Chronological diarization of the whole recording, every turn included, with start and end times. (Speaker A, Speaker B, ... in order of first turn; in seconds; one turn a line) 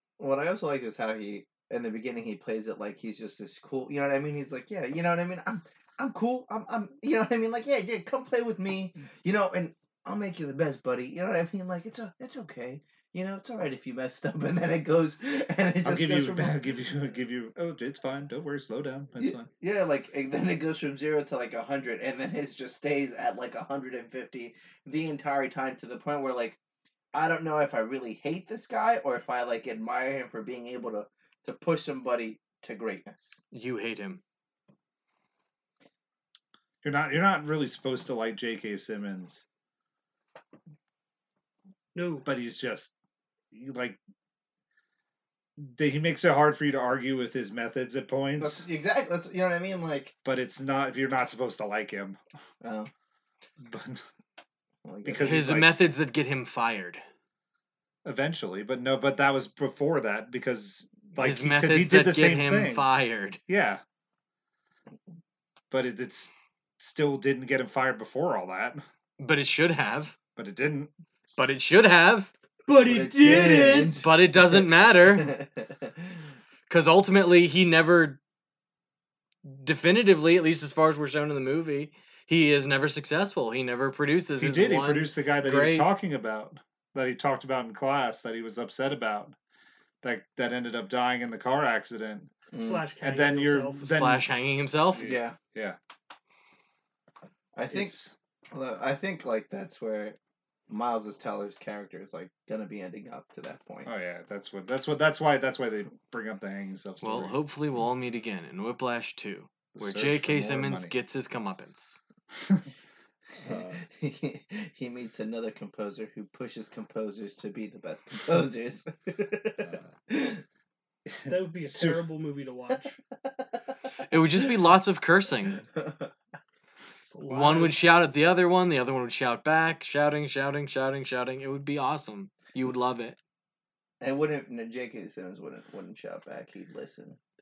Speaker A: 0.2-16.6
Speaker B: 15.8-19.5
Speaker A: 19.2-26.6
Speaker A: 27.1-33.4
Speaker C: 33.5-34.2
Speaker B: 36.8-39.4
Speaker D: 42.0-42.3
Speaker B: 42.2-42.9
Speaker B: 43.5-44.0
Speaker B: 45.6-48.6
Speaker A: 48.4-50.1
Speaker B: 50.2-52.2
Speaker A: 52.6-52.9
Speaker B: 53.6-54.0
Speaker A: 54.9-55.5
Speaker B: 55.0-55.8
Speaker C: 55.2-57.0
Speaker B: 58.0-62.9
Speaker C: 61.2-63.4
Speaker B: 63.5-63.8
Speaker B: 65.7-68.8
Speaker C: 69.2-70.2
Speaker B: 70.4-70.9
Speaker C: 71.4-72.3
Speaker D: 72.7-74.0
Speaker A: 72.8-74.6
Speaker C: 73.9-75.3
Speaker A: 75.2-75.9
Speaker C: 76.7-78.2
Speaker C: 79.4-85.9
Speaker B: 84.4-89.3
Speaker B: 90.0-92.3
Speaker A: 92.5-92.9
Speaker D: 92.6-93.9
Speaker B: 93.0-94.3
Speaker C: 93.8-95.1
Speaker B: 94.9-95.8
Speaker A: 95.0-95.4
Speaker A: 97.5-98.0
Speaker B: 97.7-98.1
Speaker A: 98.5-100.2
Speaker A: 100.7-103.9
Speaker B: 103.8-107.4
Speaker C: 107.0-112.0
Speaker B: 109.7-110.9
Speaker B: 113.4-113.8
Speaker A: 113.5-120.4
Speaker B: 119.6-119.9
Speaker B: 121.1-122.1
Speaker D: 121.3-123.0
Speaker C: 124.1-125.6
Speaker A: 125.8-126.1
Speaker D: 127.0-127.8
Speaker C: 127.3-133.2
Speaker A: 134.0-137.2